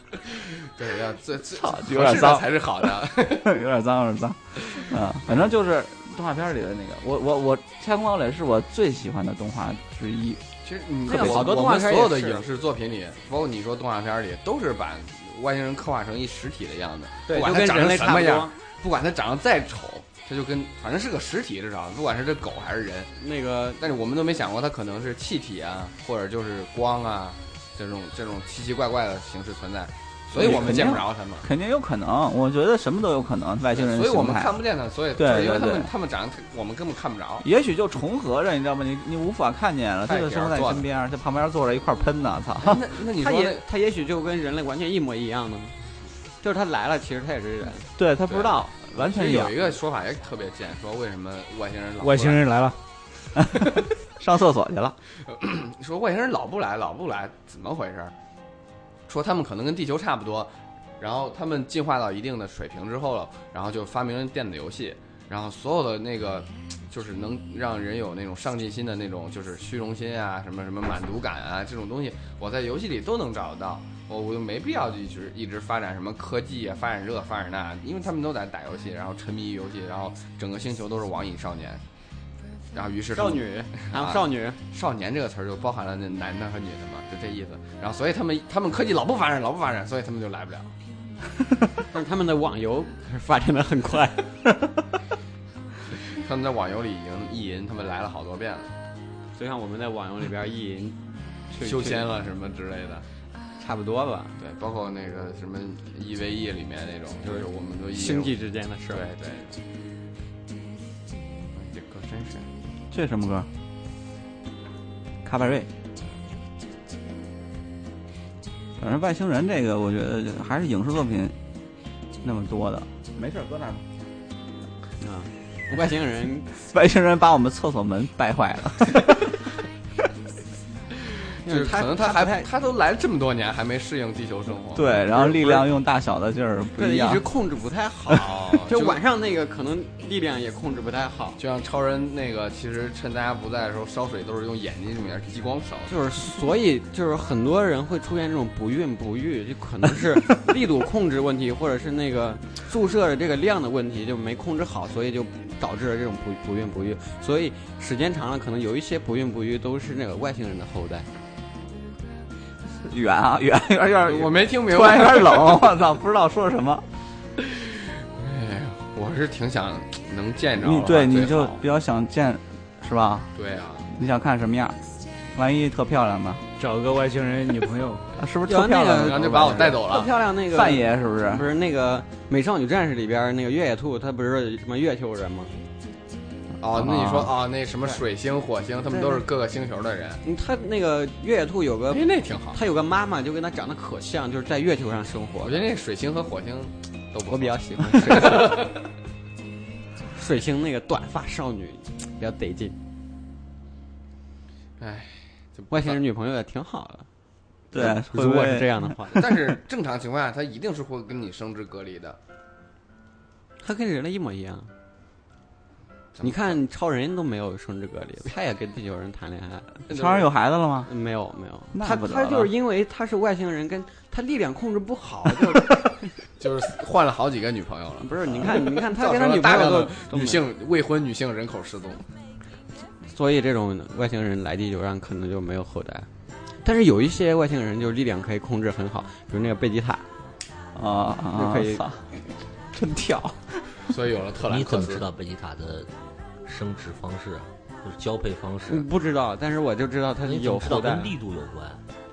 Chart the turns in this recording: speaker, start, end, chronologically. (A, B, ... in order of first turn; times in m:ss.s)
0:00.6-0:03.6 A
0:01.5-0:02.5 B
0:03.4-0:10.4 B
0:10.6-0:23.1 A
0:11.1-0:12.5 C
0:11.1-0:11.4 B
0:17.3-0:18.6 C
0:23.2-0:23.8 C
0:23.8-0:31.5 A
0:30.3-0:34.6 B
0:33.7-0:37.5 A
0:35.2-0:35.9 B
0:37.4-0:42.8 B
0:40.0-0:40.8 A
0:42.6-0:43.6 A
0:43.1-0:45.8 C
0:46.4-0:47.9 C
0:48.0-0:49.6 B
0:48.3-0:52.5 A
0:52.0-0:52.8 D
0:53.4-0:55.0 B
0:55.3-0:58.1 A
0:59.1-1:21.8 A
1:22.7-1:30.7 A
1:23.1-1:24.6 C
1:31.9-1:34.3 C
1:36.1-1:38.7 A
1:39.4-1:41.0 C
1:41.6-1:43.0 A
1:41.6-1:42.0 C
1:43.6-1:44.4 C
1:44.4-1:48.3 A
1:47.2-1:49.1 C
1:48.9-1:49.6 A
1:51.5-1:52.5 A
1:52.9-1:53.5 B
1:55.2-1:55.7 B
1:58.8-2:01.4 B
2:02.2-2:03.8 B
2:05.0-2:06.5 C
2:06.6-2:09.4 B
2:11.4-2:12.5 C
2:11.4-2:15.7 A
2:14.7-2:17.2 B
2:16.8-2:21.4 C
2:18.1-2:19.0 A
2:21.4-2:26.0 A
2:25.9-2:41.1 C
2:42.8-2:46.8 B
2:44.0-2:45.7 A
2:47.4-2:51.6 A
2:50.6-2:53.3 B
2:53.4-2:53.9 A
2:53.9-2:54.8 B
2:55.4-2:56.4 B
2:56.6-2:58.1 D
2:58.2-2:59.8 B
2:58.4-3:05.5 C
2:59.0-3:00.1 A
3:00.5-3:01.5 B
3:06.6-3:10.2 A
3:06.7-3:07.3 B
3:08.9-3:09.2 C
3:10.2-3:15.7 C
3:11.9-3:12.6 A
3:15.4-3:18.8 A
3:17.3-3:18.7 C
3:20.1-3:22.8 C
3:24.8-3:26.0 A
3:25.7-3:27.1 C
3:27.7-3:29.4 B
3:27.7-3:29.3 C
3:29.1-3:32.2 A
3:33.6-3:34.7 C
3:36.2-3:36.6 A
3:36.2-3:39.8 C
3:39.9-3:40.3 A
3:39.9-3:40.9 B
3:40.9-3:46.1 C
3:41.7-3:42.5 B
3:46.4-3:52.1 A
3:48.0-3:50.5 C
3:53.1-3:56.1 C
3:56.6-4:00.0 C
4:00.8-4:02.1 B
4:01.3-4:01.8 C
4:02.7-4:03.8 B
4:03.9-4:05.0 A
4:04.4-4:05.9 E
4:06.5-4:08.9 E
4:08.7-4:11.2 C
4:10.2-4:11.8 E